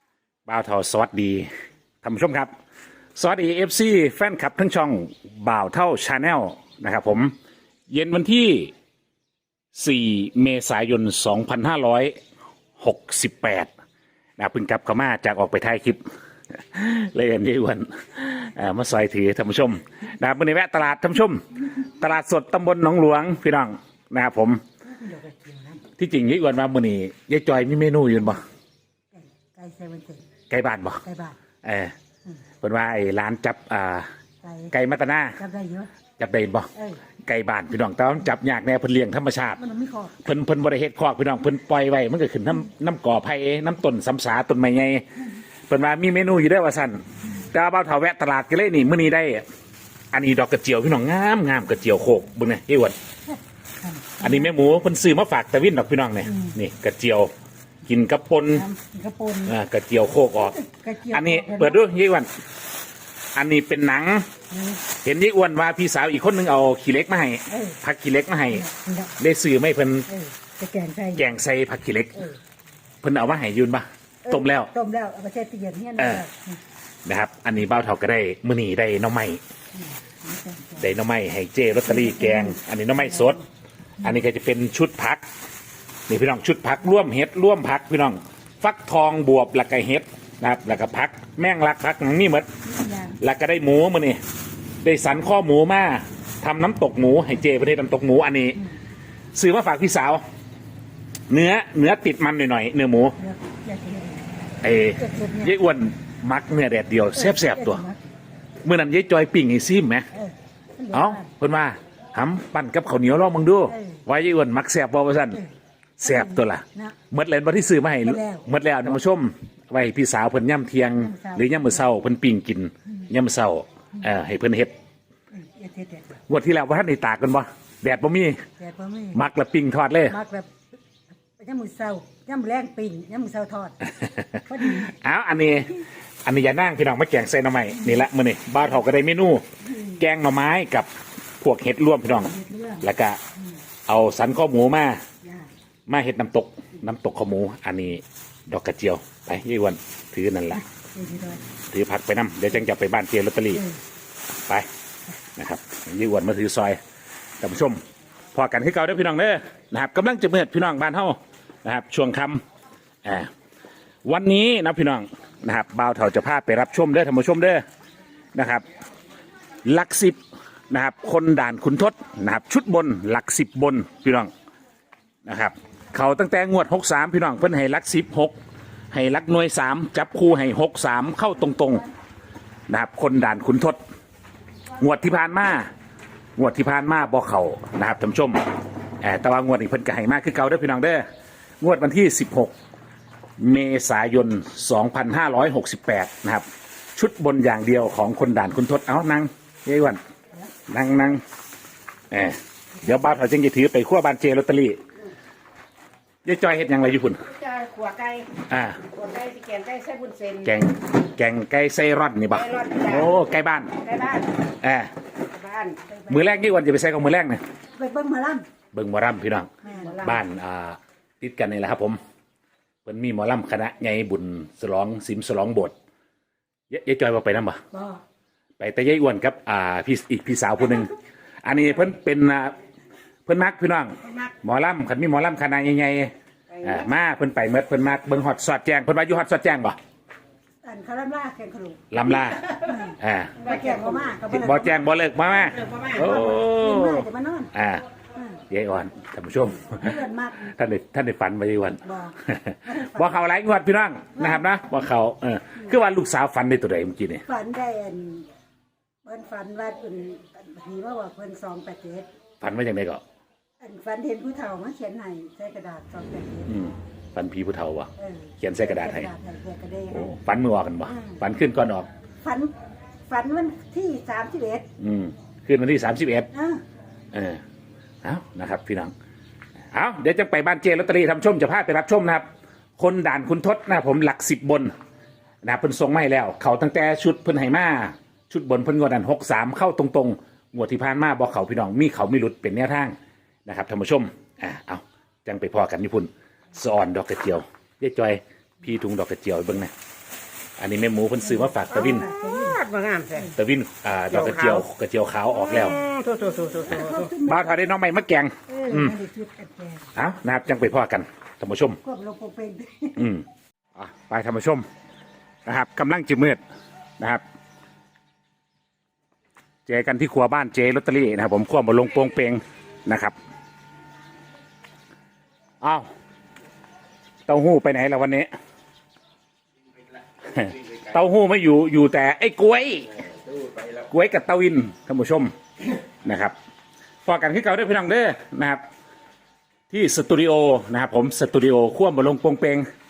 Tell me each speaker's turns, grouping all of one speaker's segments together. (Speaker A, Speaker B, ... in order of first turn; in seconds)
Speaker A: 0.5-1.5, 2.0-2.5, 3.1-7.3, 7.9-8.7, 9.7-12.1, 12.8-13.7, 14.4-16.0, 16.6-24.6, 26.0-28.4, 30.5-31.0, 31.6-31.9, 32.6-34.1, 34.7-35.4, 36.2-36.7, 37.2-39.6, 40.2-45.0, 45.7-49.4, 50.1-53.0, 54.2-57.3, 57.9-58.7, 59.5-60.6, 61.1-62.3, 63.3-64.3, 65.0-68.7, 69.2-70.1, 71.2-72.2, 73.0-74.7, 76.0-76.2, 77.0-79.4, 80.8-83.4, 84.0-85.2, 86.1-92.5, 93.2-94.2, 94.8-98.6, 99.3-100.2, 101.3-103.2, 104.6-107.8, 108.6-110.1, 110.9-115.4, 116.0-124.7, 126.3-128.4, 129.1-130.2, 134.0-140.9, 141.4-143.2, 143.9-145.0, 145.9-150.6, 151.7-153.6, 155.3-156.8, 157.4-157.8, 158.3-162.4, 163.0-163.3, 164.0-167.6, 168.3-168.6, 169.7-170.2, 170.7-174.3, 175.2-178.3, 178.9-181.8, 182.7-183.8, 184.8-185.7, 186.4-188.5, 189.0-191.0, 191.6-192.5, 193.4-200.0, 200.7-201.2, 202.1-204.8, 206.2-207.2, 208.5-208.8, 210.4-213.7, 214.6-214.9, 216.1-217.4, 218.7-222.0, 222.8-225.7, 226.7-227.6, 228.6-230.9, 231.4-232.5, 233.2-236.1, 236.6-239.8, 241.9-243.4, 244.3-247.8, 248.5-257.2, 262.4-263.0, 266.4-269.1, 269.9-271.9, 274.8-276.3, 277.1-277.4, 278.0-278.9, 279.7-282.2, 282.8-284.7, 285.4-292.9, 293.4-299.7, 300.6-302.1, 303.3-305.8, 306.8-309.0, 309.9-311.8, 312.9-314.7, 315.4-316.4, 319.7-323.1, 325.6-325.9, 327.3-328.3, 330.3-332.9, 333.7-335.3, 336.0-336.3, 337.1-338.6, 339.7-342.6
Speaker B: 24.8-25.8, 29.1-30.2, 31.0-31.4, 34.4-34.7, 35.4-35.9, 39.6-40.2, 53.3-54.5, 58.5-59.5, 60.6-61.9, 64.5-64.8, 67.5-67.8, 68.5-69.1, 70.1-71.3, 74.2-76.5, 79.8-80.9, 81.8-83.4, 92.7-93.1, 103.2-104.3, 105.0-105.5, 107.2-108.0, 110.1-111.2, 113.7-114.0, 116.0-116.9, 118.0-118.4, 120.9-121.8, 125.4-126.2, 128.6-129.2, 130.1-130.6, 131.4-133.8, 134.5-134.9, 142.1-142.8, 150.8-151.4, 215.3-216.3, 217.7-218.4, 219.6-220.2, 227.7-228.0, 240.6-241.8, 242.5-244.8, 246.0-247.5, 249.7-250.5, 251.8-253.2, 254.2-254.4, 257.2-258.3, 259.0-262.1, 263.6-266.5, 268.0-270.1, 272.2-272.5, 273.1-274.6, 276.3-276.6, 301.4-303.3, 306.2-307.5, 308.5-309.9, 311.8-313.0
Speaker C: 207.3-208.3, 208.8-210.6, 212.3-213.2, 213.8-214.4, 215.4-215.7, 234.0-234.3, 236.5-236.8, 243.4-244.1, 245.3-246.1, 302.4-303.2, 304.1-304.6, 305.5-307.1